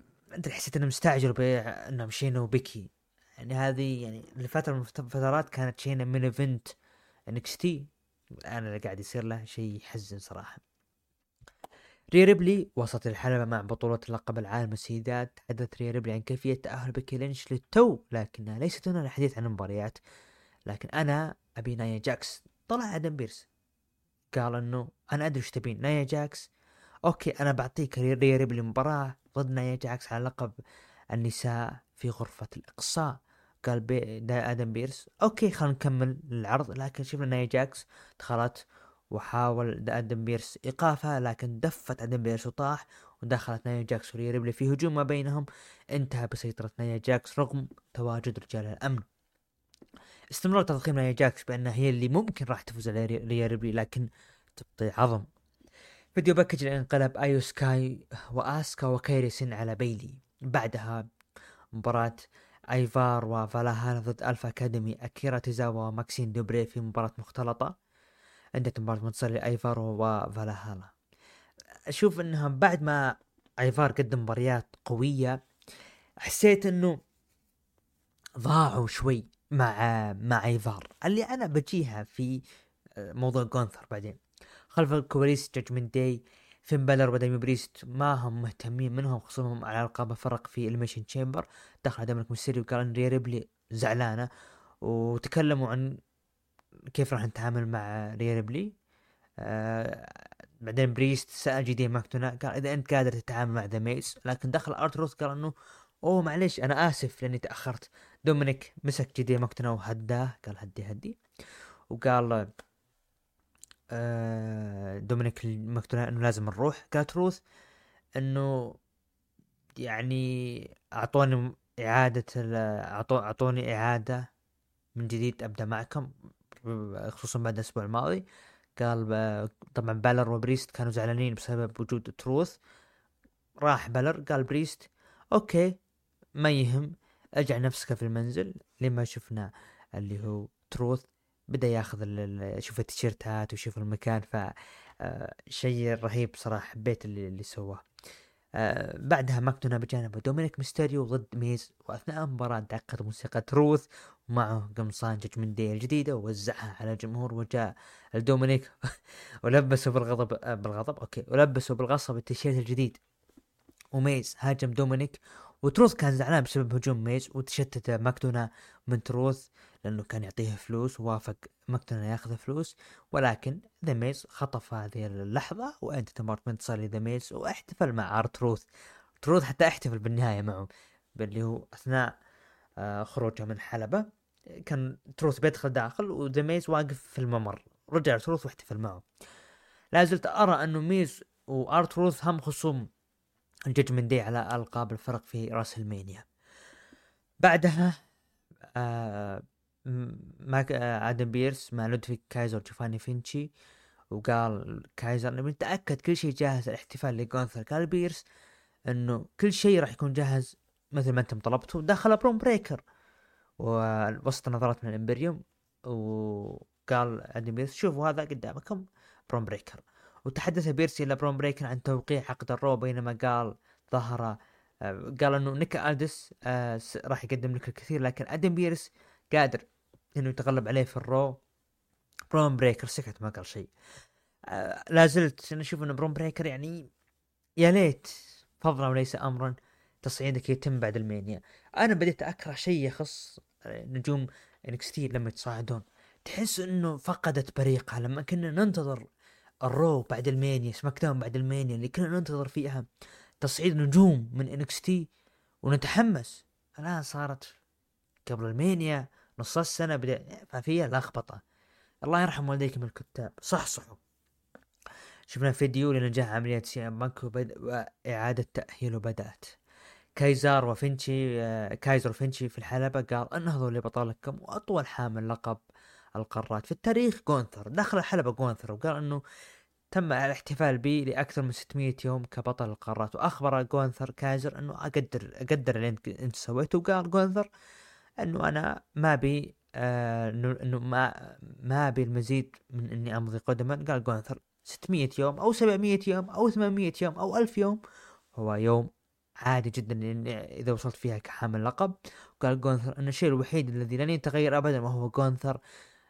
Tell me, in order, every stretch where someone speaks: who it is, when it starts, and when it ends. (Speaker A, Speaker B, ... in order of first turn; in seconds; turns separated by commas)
Speaker A: 0.3-6.7, Speaker A: 7.3-7.9, Speaker A: 8.5-10.6, Speaker A: 12.1-20.0, Speaker A: 20.7-23.5, Speaker A: 24.3-26.5, Speaker A: 27.1-30.5, Speaker A: 31.1-38.6, Speaker A: 39.1-49.0, Speaker A: 50.3-55.3, Speaker A: 56.1-61.0, Speaker A: 61.7-67.7, Speaker A: 68.6-70.9, Speaker A: 71.9-75.4, Speaker A: 76.2-77.0, Speaker A: 78.4-82.4, Speaker A: 83.0-84.2, Speaker A: 84.7-94.3, Speaker A: 94.8-95.9, Speaker A: 96.9-98.7, Speaker A: 99.4-105.5, Speaker A: 106.0-111.2, Speaker A: 111.9-112.5, Speaker A: 113.9-117.4, Speaker A: 118.2-118.5, Speaker A: 119.8-124.2, Speaker A: 125.0-128.2, Speaker A: 128.8-132.6, Speaker A: 133.6-135.7, Speaker A: 136.4-147.8, Speaker A: 148.6-158.7, Speaker A: 159.4-163.0, Speaker A: 163.9-178.6, Speaker A: 179.2-182.1, Speaker A: 182.8-184.0, Speaker A: 184.7-189.0, Speaker A: 189.9-192.9, Speaker A: 193.7-196.2, Speaker A: 197.4-198.0, Speaker A: 198.8-203.5, Speaker A: 204.1-208.2, Speaker A: 208.9-212.8, Speaker A: 213.6-229.6, Speaker A: 230.2-231.3, Speaker A: 232.3-233.7, Speaker A: 234.5-236.9, Speaker A: 237.6-249.0, Speaker A: 249.7-252.8, Speaker A: 253.4-255.1, Speaker A: 255.6-257.4, Speaker A: 258.3-261.4, Speaker A: 262.0-264.0, Speaker A: 265.3-269.6, Speaker A: 270.2-275.6, Speaker A: 276.2-279.2, Speaker A: 279.9-287.5, Speaker A: 288.2-297.8, Speaker A: 298.3-298.9, Speaker A: 299.4-305.6